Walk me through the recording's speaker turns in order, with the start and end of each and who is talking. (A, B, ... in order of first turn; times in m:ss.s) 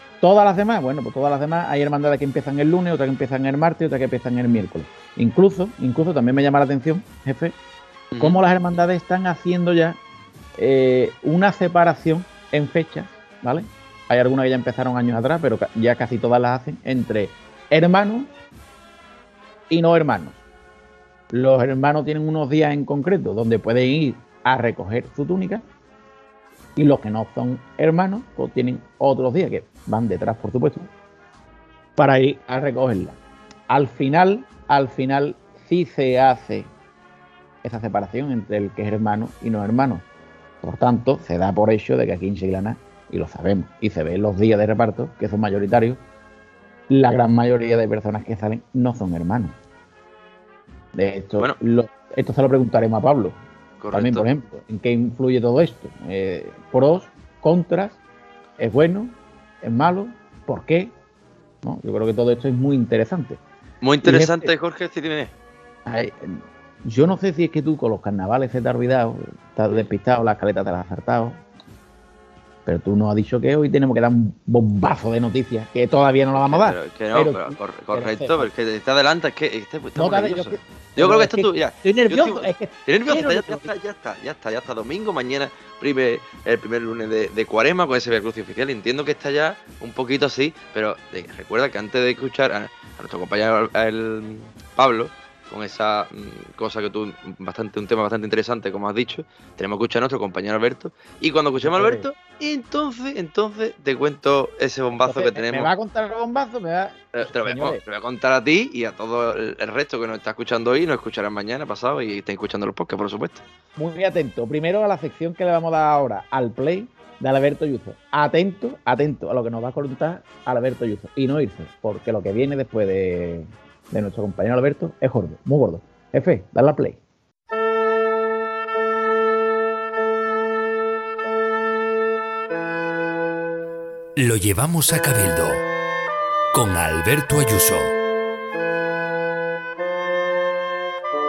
0:00.2-0:07.6 A
0:08.1-0:08.4 B
0:08.2-0:10.0 A
0:10.6-0:18.3 A
0:19.7-0:20.4 A
0:21.3-0:25.6 A
0:26.8-0:30.9 A
0:32.0-0:33.2 A
0:33.7-0:36.7 A
0:37.6-0:40.0 A
0:40.6-0:46.0 A
0:46.9-0:49.6 A
0:50.9-0:53.4 A
0:53.8-0:54.3 B
0:53.9-0:58.0 A
0:58.6-1:00.9 A
1:01.6-1:03.4 A
1:03.8-1:05.3 B
1:04.0-1:04.5 A
1:05.8-1:11.4 A
1:12.7-1:18.5 A
1:16.4-1:45.7 B
1:20.0-1:23.7 A
1:41.6-1:42.0 A
1:45.0-1:47.8 A
1:47.2-1:53.4 B
1:53.8-2:07.0 A
2:14.2-2:15.6 C
2:16.5-2:17.9 C